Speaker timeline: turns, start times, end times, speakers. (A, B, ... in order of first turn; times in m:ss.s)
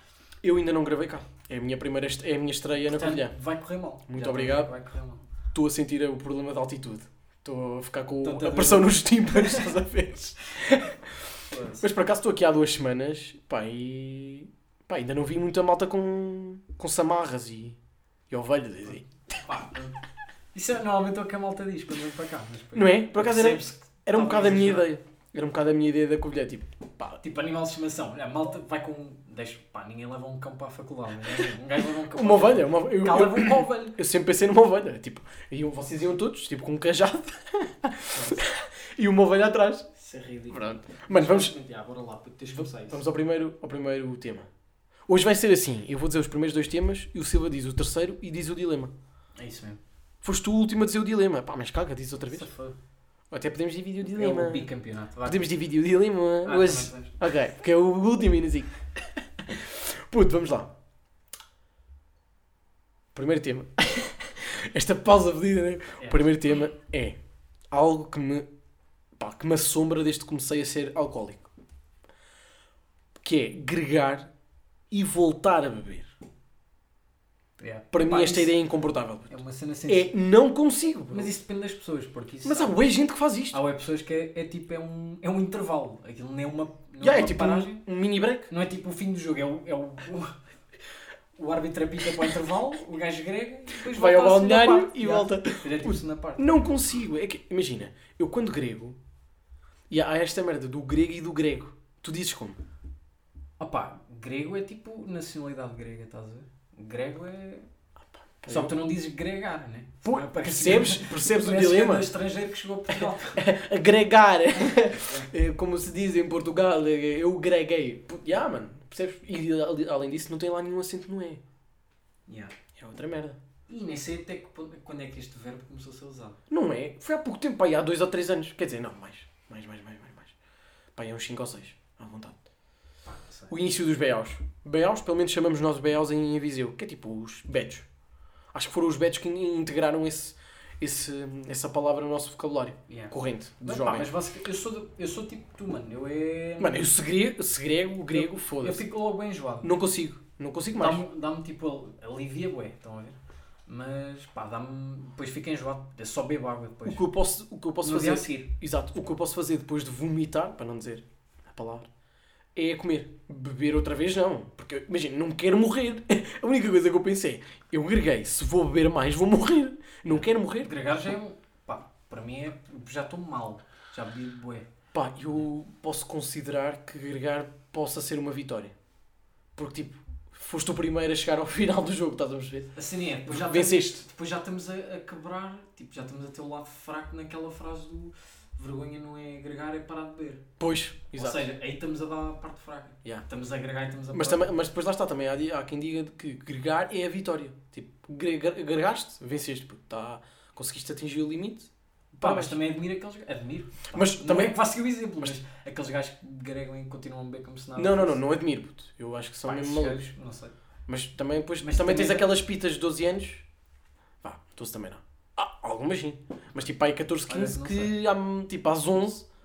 0:00.4-0:03.4 A
0:02.9-0:05.2 B
0:04.1-0:04.7 A
0:05.5-0:17.8 A
0:08.2-0:09.7 B
0:11.5-0:11.9 B
0:18.3-0:19.1 A
0:19.3-0:20.0 B
0:20.5-0:24.9 B
0:22.7-0:27.2 A
0:27.2-0:34.0 B
0:32.1-0:39.9 A
0:38.1-0:38.4 B
0:40.0-0:43.0 B
0:40.5-0:41.6 A
0:42.5-0:44.5 A
0:45.1-0:48.9 A
0:49.4-0:49.8 B
0:50.2-0:52.5 A
0:52.3-0:52.8 B
0:53.3-0:54.7 A
0:54.2-0:55.5 B
0:55.2-0:58.7 A
0:56.4-0:57.2 B
0:59.4-1:00.7 A
1:03.1-1:07.2 A
1:06.0-1:06.3 B
1:07.7-1:08.5 A
1:09.2-1:11.5 A
1:13.2-1:14.3 A
1:14.9-1:16.1 A
1:17.6-1:18.6 B
1:17.9-1:19.4 A
1:19.3-1:20.1 B
1:19.9-1:21.3 A
1:21.1-1:22.8 B
1:22.4-1:23.6 A
1:23.5-1:27.8 B
1:27.0-1:28.5 A
1:28.5-1:30.4 B
1:31.4-1:36.5 B
1:33.8-1:39.0 A
1:39.9-1:42.6 A
1:43.6-1:47.7 B
1:48.2-1:48.8 A
1:48.5-1:53.4 B
1:50.0-1:52.1 A
1:52.9-2:01.4 A
1:54.6-1:55.3 B
2:02.3-2:02.6 B
2:02.8-2:03.4 A
2:03.7-2:06.4 B
2:06.5-2:10.3 A
2:11.0-2:12.4 A
2:13.1-2:13.5 B
2:13.5-2:17.9 A
2:18.5-2:24.1 A
2:22.9-2:26.8 B
2:26.6-2:28.9 A
2:28.1-2:29.7 B
2:29.6-2:31.0 A
2:30.8-2:37.0 B
2:36.8-2:41.9 A
2:37.8-2:38.5 B
2:42.6-2:50.7 A
2:50.1-2:54.7 B
2:54.9-2:58.8 A
2:59.6-3:02.7 A
3:02.8-3:10.4 B
3:03.2-3:04.1 A
3:10.6-3:11.4 A
3:11.2-3:14.5 B
3:14.1-3:22.6 A
3:22.2-3:28.2 B
3:23.9-3:24.6 A
3:27.8-3:30.0 A
3:29.4-3:30.5 B
3:30.9-3:33.4 A
3:31.6-3:32.3 B
3:34.2-3:39.3 A
3:37.3-3:38.0 B